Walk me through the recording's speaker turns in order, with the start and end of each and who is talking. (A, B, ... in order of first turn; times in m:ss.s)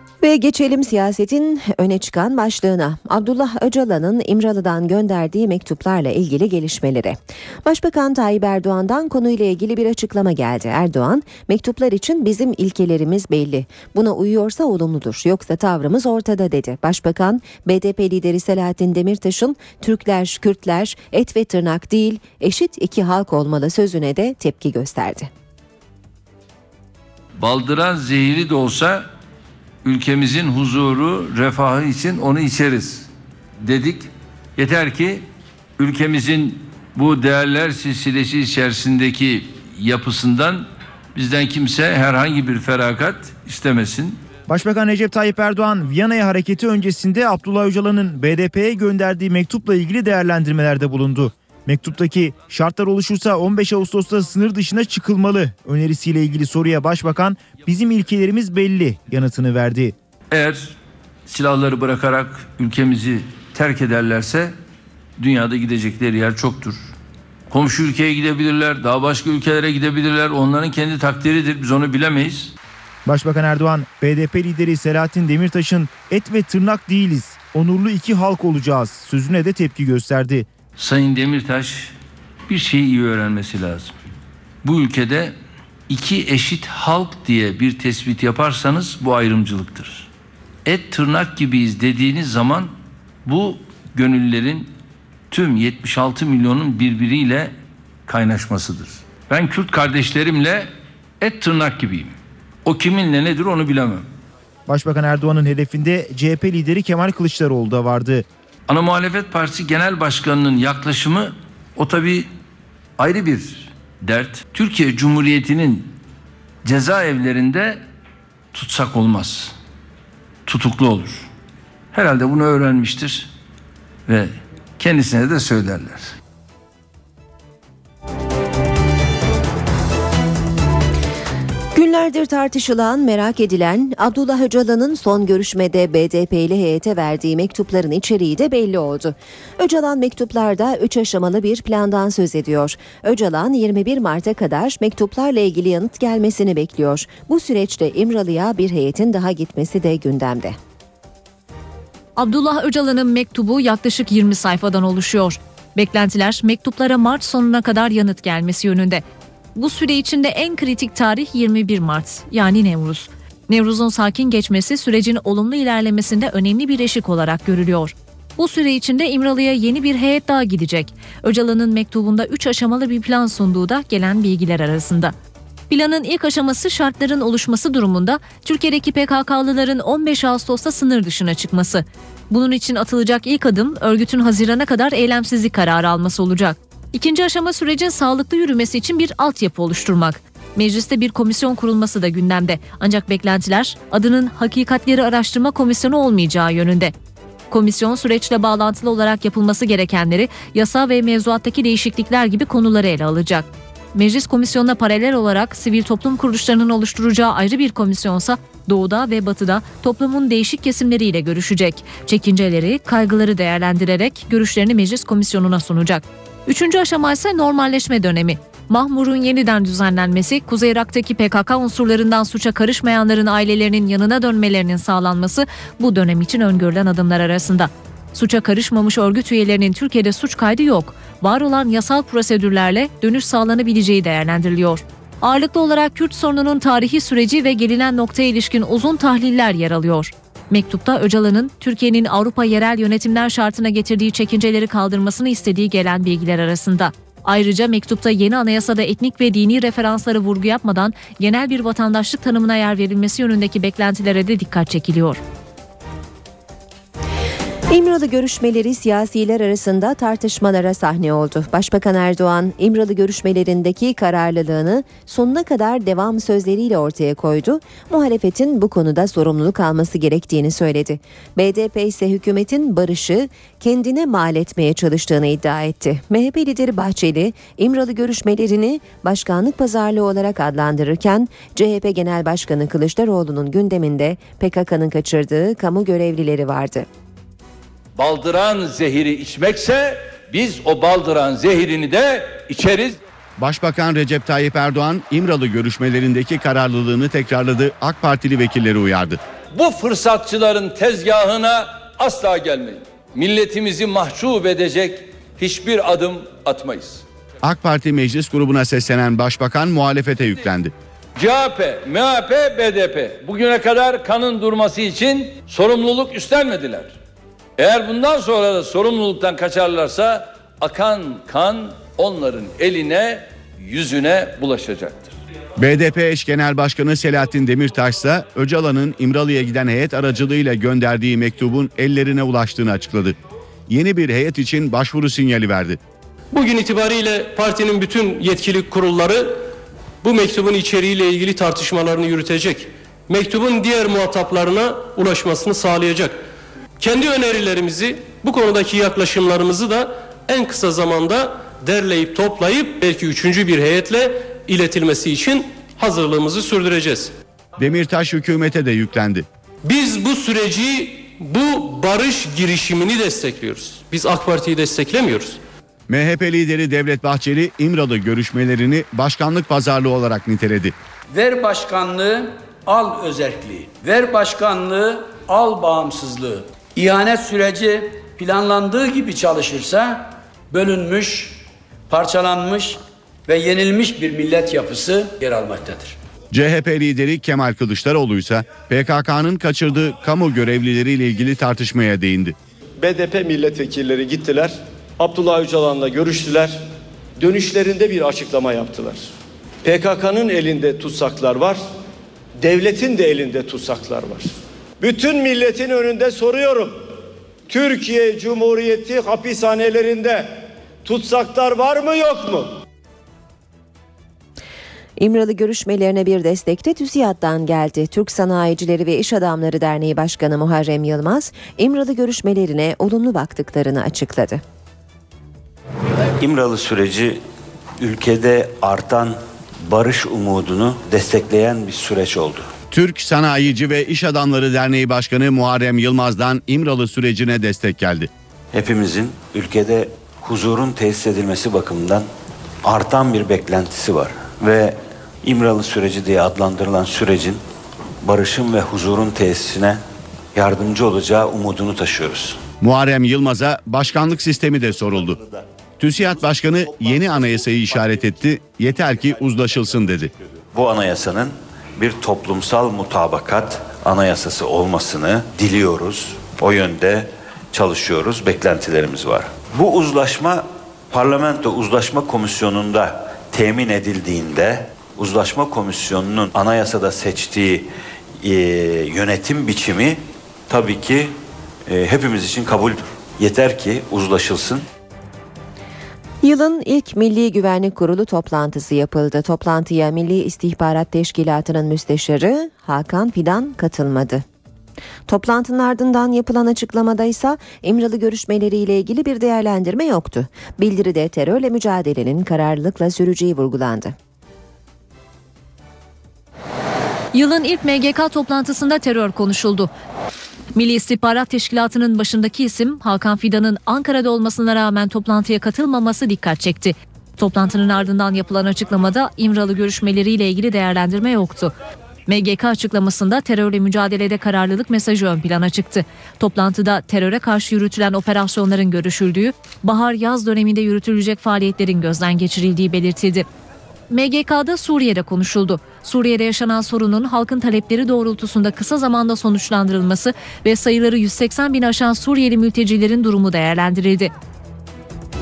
0:00.2-0:25.3 A
0:27.4-0:29.1 B
0:29.8-0:33.1 B
0:33.6-0:35.3 B
0:35.8-0:44.2 B
0:44.5-0:59.9 C
1:00.3-1:04.6 B
1:05.2-1:06.9 B
1:07.5-1:12.5 B
1:13.0-1:20.5 C
1:20.8-1:22.0 B
1:22.5-1:23.9 B
1:24.6-1:25.4 B
1:25.9-1:30.1 B
1:30.6-1:32.7 B
1:33.2-1:34.7 B
1:35.3-1:37.5 B
1:38.1-1:44.1 B
1:44.7-1:48.2 C
1:48.7-1:52.3 B
1:53.0-1:56.0 B
1:56.6-1:57.8 B
1:58.5-1:59.5 B
2:00.4-2:01.3 B
2:01.9-2:03.3 B
2:04.1-2:06.1 B
2:11.7-2:30.6 A
2:32.2-2:39.0 D
2:39.6-2:55.1 D
2:55.7-3:16.9 D
3:17.5-4:15.2 D
4:17.7-4:46.9 A
4:48.0-4:53.0 B
4:53.4-4:59.2 E
4:59.5-5:07.0 B
5:07.4-5:10.7 E
5:11.2-5:16.9 B
5:17.6-5:25.1 B
5:25.6-5:33.2 E
5:33.7-5:35.8 E
5:36.3-5:39.4 F
5:40.0-5:46.2 F
5:46.8-5:57.1 F
5:57.6-5:59.2 E
5:59.7-6:05.4 F
6:05.9-6:10.7 E
6:11.1-6:26.0 G
6:26.3-6:32.4 E
6:32.8-6:36.6 H
6:37.2-6:39.1 H
6:39.6-6:41.6 H
6:42.4-6:46.8 H
6:47.5-6:52.5 H
6:55.0-7:04.4 A
7:06.2-7:07.2 I
7:07.8-7:12.5 I
7:12.7-7:18.1 E
7:18.5-7:22.1 I
7:22.6-7:27.4 I
7:28.0-7:29.8 I
7:30.3-7:32.4 I
7:32.6-7:35.2 E
7:35.8-7:40.1 E
7:40.5-7:57.7 I
7:58.2-8:01.1 I
8:01.6-8:04.6 I
8:06.2-8:14.2 A
8:15.1-8:24.0 A
8:27.1-8:29.7 D
8:30.5-8:41.5 D
8:42.1-8:53.2 D
8:53.9-9:04.1 D